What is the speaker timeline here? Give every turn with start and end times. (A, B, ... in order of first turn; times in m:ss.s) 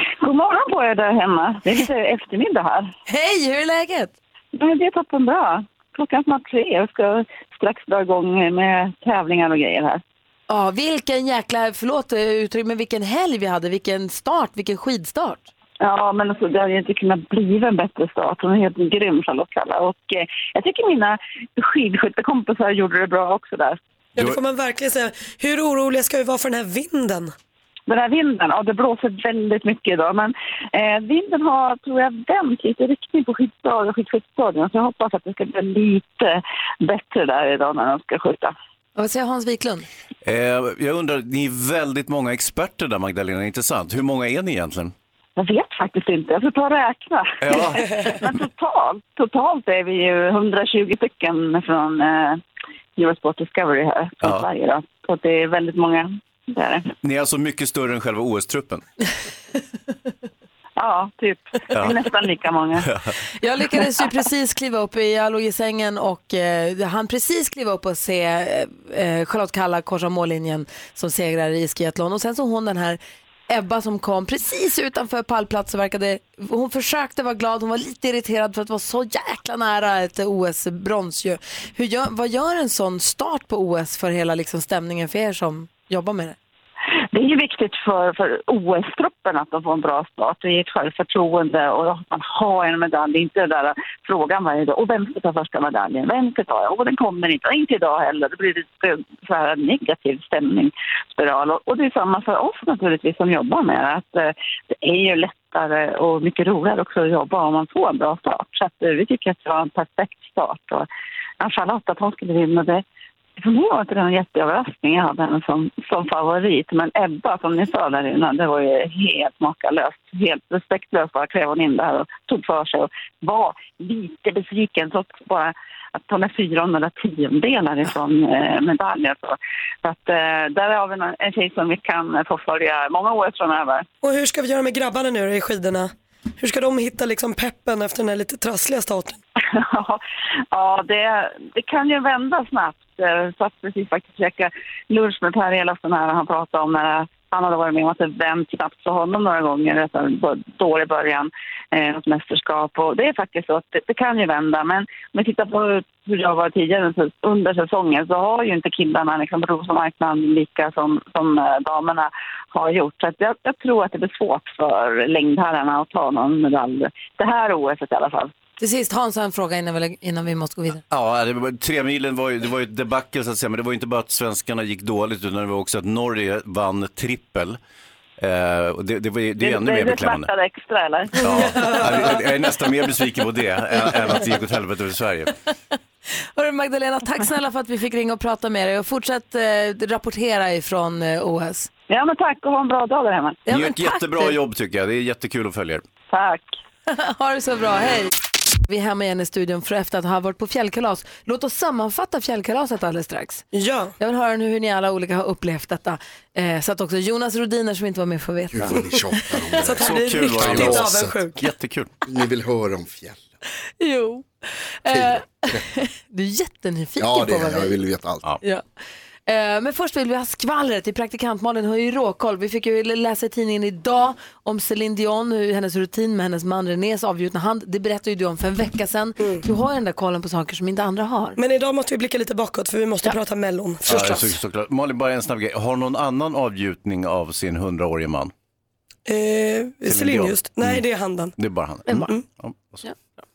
0:00.2-0:02.9 A
0:03.1-0:04.2 B
0:04.5-0:10.0 A
0:10.5-0:15.5 B
0:15.8-0:23.8 A
0:24.2-0:27.3 C
0:27.9-0:38.5 A
0:39.0-0:39.9 B
0:40.2-0:44.9 D
0:45.4-0:52.4 A
0:47.4-0:47.9 D
0:53.0-0:56.9 A
0:54.2-0:54.5 D
0:57.0-0:58.8 D
1:00.8-1:02.9 A
1:01.7-1:02.0 D
1:02.8-1:03.1 D
1:03.4-1:26.4 B
1:27.1-1:50.9 A
1:51.4-1:52.8 A
1:53.4-2:13.8 A
2:14.0-2:19.2 C
2:19.6-2:20.0 A
2:20.5-2:48.3 A
2:48.6-2:50.8 B
2:50.9-2:57.6 D
2:58.2-3:00.3 D
2:59.4-3:01.5 A
3:01.2-3:05.3 D
3:01.4-3:01.8 C
3:06.4-3:11.7 B
3:11.9-3:13.4 A
3:13.5-3:14.4 B
3:13.5-3:15.8 D
3:16.1-3:16.6 A
3:16.9-3:18.1 B
3:18.7-3:23.4 B
3:23.5-3:24.0 C
3:24.0-3:29.0 B
3:28.5-3:31.2 E
3:29.6-3:31.4 C
3:29.8-3:31.9 D
3:32.0-3:33.3 E
3:33.8-3:37.8 B
3:34.9-3:35.6 E
3:37.0-3:38.2 E
3:38.4-3:51.4 B
3:51.4-3:54.4 C
3:53.9-3:58.3 D
3:59.1-4:01.3 C
3:59.9-4:00.8 D
4:01.4-4:02.8 D
4:01.9-4:02.2 C